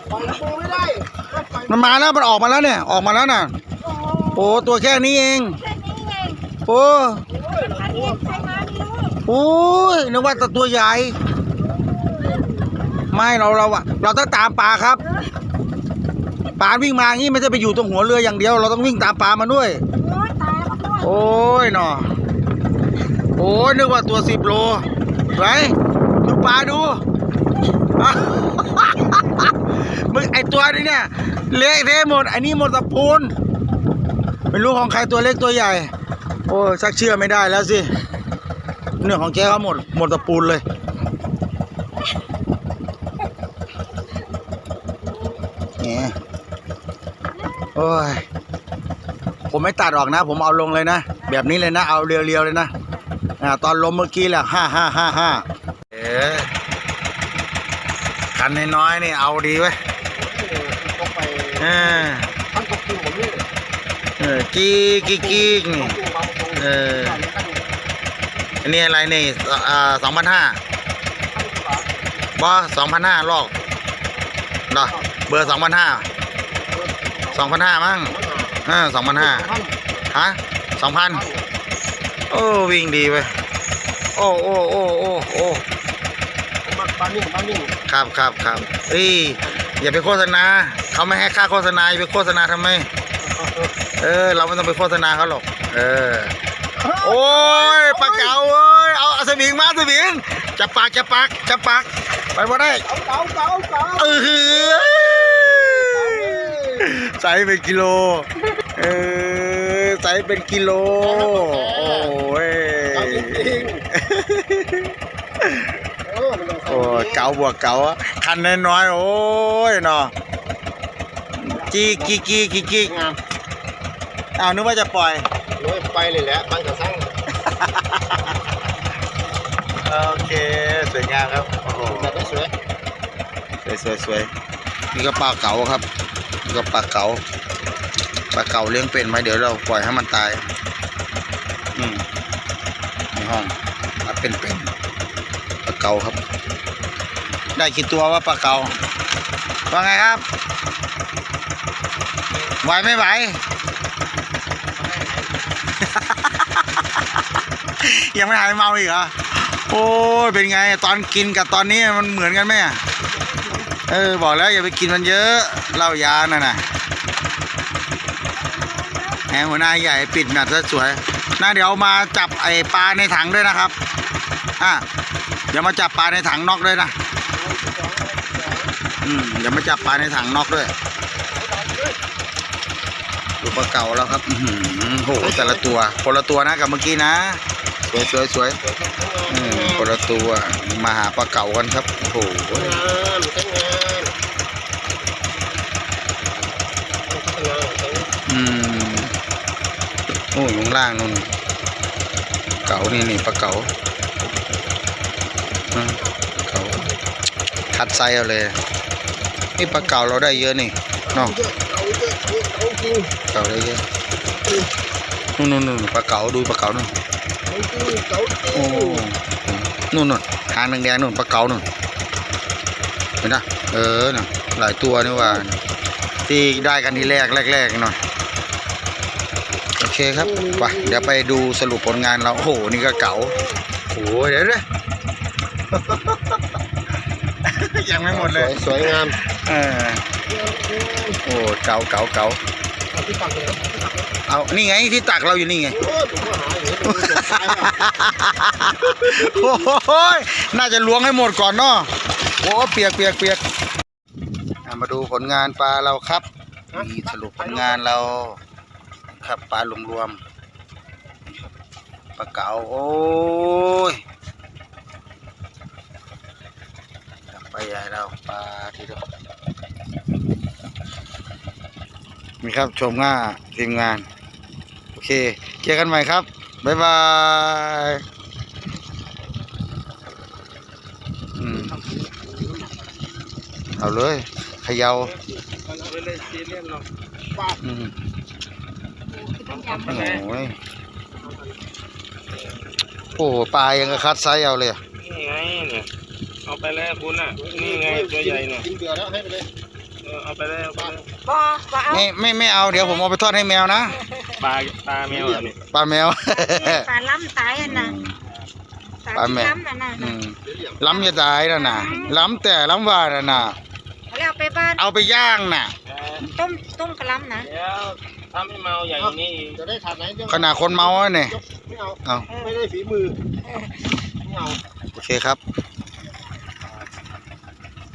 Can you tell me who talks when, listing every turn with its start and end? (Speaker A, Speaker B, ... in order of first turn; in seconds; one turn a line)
Speaker A: 0.1-1.9
Speaker B: 1.6-3.5
Speaker C: 3.8-4.5
Speaker B: 4.3-5.6
Speaker C: 5.6-6.4
Speaker B: 6.7-7.2
Speaker A: 7.3-8.5
Speaker C: 7.6-9.2
Speaker B: 9.2-11.1
Speaker C: 12.0-12.4
Speaker B: 13.1-15.0
Speaker B: 16.6-19.8
Speaker C: 19.9-21.4
Speaker B: 21.0-22.1
Speaker B: 23.4-27.0
Speaker B: 28.0-33.3
Speaker B: 34.5-35.9
Speaker B: 36.5-37.9
Speaker B: 39.0-40.6
Speaker B: 45.8-46.1
Speaker B: 47.7-48.2
Speaker B: 49.5-52.7
Speaker B: 53.4-56.5
Speaker B: 58.3-59.8
Speaker A: 60.1-63.4
Speaker B: 61.6-62.3
Speaker B: 64.2-66.0
Speaker A: 65.2-66.5
Speaker B: 66.5-67.2
Speaker A: 67.2-67.6
Speaker B: 68.6-70.6
Speaker A: 71.3-71.9
Speaker B: 72.4-73.5
Speaker B: 74.7-76.1
Speaker A: 76.7-77.3
Speaker B: 77.3-79.5
Speaker A: 78.2-78.6
Speaker A: 79.2-79.7
Speaker B: 80.1-81.3
Speaker B: 82.3-83.3
Speaker B: 84.2-85.6
Speaker A: 86.6-87.7
Speaker B: 87.8-92.9
Speaker A: 93.4-93.7
Speaker B: 94.0-96.3
Speaker A: 96.8-98.3
Speaker B: 96.9-102.9
Speaker A: 102.9-104.4
Speaker B: 104.0-115.7
Speaker A: 105.9-106.8
Speaker A: 111.0-112.1
Speaker A: 113.0-113.8
Speaker A: 116.0-117.2
Speaker B: 116.7-120.1
Speaker B: 121.4-122.9
Speaker A: 122.9-123.2
Speaker B: 124.4-125.3
Speaker A: 125.6-127.1
Speaker B: 127.5-128.2
Speaker B: 129.8-132.4
Speaker A: 131.7-132.5
Speaker B: 133.6-134.3
Speaker B: 134.9-135.8
Speaker B: 136.4-137.2
Speaker B: 138.3-140.4
Speaker B: 141.7-142.0
Speaker B: 143.1-144.7
Speaker B: 145.6-146.2
Speaker B: 147.5-148.8
Speaker B: 149.7-150.2
Speaker B: 152.6-153.4
Speaker D: 154.7-155.4
Speaker B: 155.9-156.4
Speaker B: 157.8-162.8
Speaker B: 163.9-166.6
Speaker C: 168.6-169.1
Speaker B: 169.3-173.7
Speaker B: 175.5-176.9
Speaker A: 177.3-178.7
Speaker B: 179.0-180.7
Speaker A: 181.4-181.9
Speaker B: 183.4-188.6
Speaker A: 185.2-185.6
Speaker A: 188.7-189.8
Speaker B: 189.3-192.9
Speaker A: 192.5-194.1
Speaker A: 197.1-198.1
Speaker B: 198.3-199.1
Speaker B: 200.3-201.3
Speaker B: 202.6-203.7
Speaker B: 205.7-206.9
Speaker B: 207.7-208.6
Speaker B: 209.6-211.4
Speaker A: 211.2-213.1
Speaker B: 213.3-213.8
Speaker B: 215.4-216.9
Speaker A: 217.5-219.0
Speaker B: 218.5-221.6
Speaker B: 223.2-225.6
Speaker B: 226.3-228.0
Speaker B: 229.8-233.4
Speaker A: 230.3-231.1
Speaker B: 233.9-234.6
Speaker B: 237.5-240.0
Speaker A: 238.2-239.1
Speaker A: 240.3-241.2
Speaker B: 241.2-242.4
Speaker A: 242.9-243.9
Speaker B: 244.3-245.8
Speaker A: 245.8-247.8
Speaker B: 246.8-251.9
Speaker B: 252.4-253.4
Speaker B: 254.6-258.4
Speaker B: 259.2-260.2
Speaker B: 262.1-264.0
Speaker B: 267.3-269.0
Speaker B: 272.4-274.1
Speaker B: 274.9-278.0
Speaker B: 281.4-281.8
Speaker A: 282.1-282.6
Speaker B: 283.8-285.1
Speaker D: 285.6-286.9
Speaker B: 287.5-287.9
Speaker C: 289.1-289.9
Speaker D: 289.5-290.2
Speaker B: 289.7-290.6
Speaker B: 293.1-294.8
Speaker D: 295.0-295.9
Speaker D: 296.4-298.7
Speaker A: 297.5-299.5
Speaker D: 300.0-301.1
Speaker C: 301.2-302.1
Speaker B: 301.9-304.0
Speaker C: 302.7-303.0
Speaker D: 304.4-305.6
Speaker B: 305.7-306.9
Speaker C: 306.3-307.9
Speaker B: 307.6-308.1
Speaker C: 309.0-310.2
Speaker B: 309.1-313.6
Speaker C: 311.0-312.2
Speaker C: 314.1-315.0
Speaker B: 314.8-315.7
Speaker D: 315.9-316.3
Speaker C: 316.2-317.5
Speaker D: 317.4-319.7
Speaker A: 319.7-320.8
Speaker B: 320.3-321.4
Speaker A: 321.5-323.2
Speaker B: 322.0-322.3
Speaker A: 324.2-324.6
Speaker B: 324.9-325.4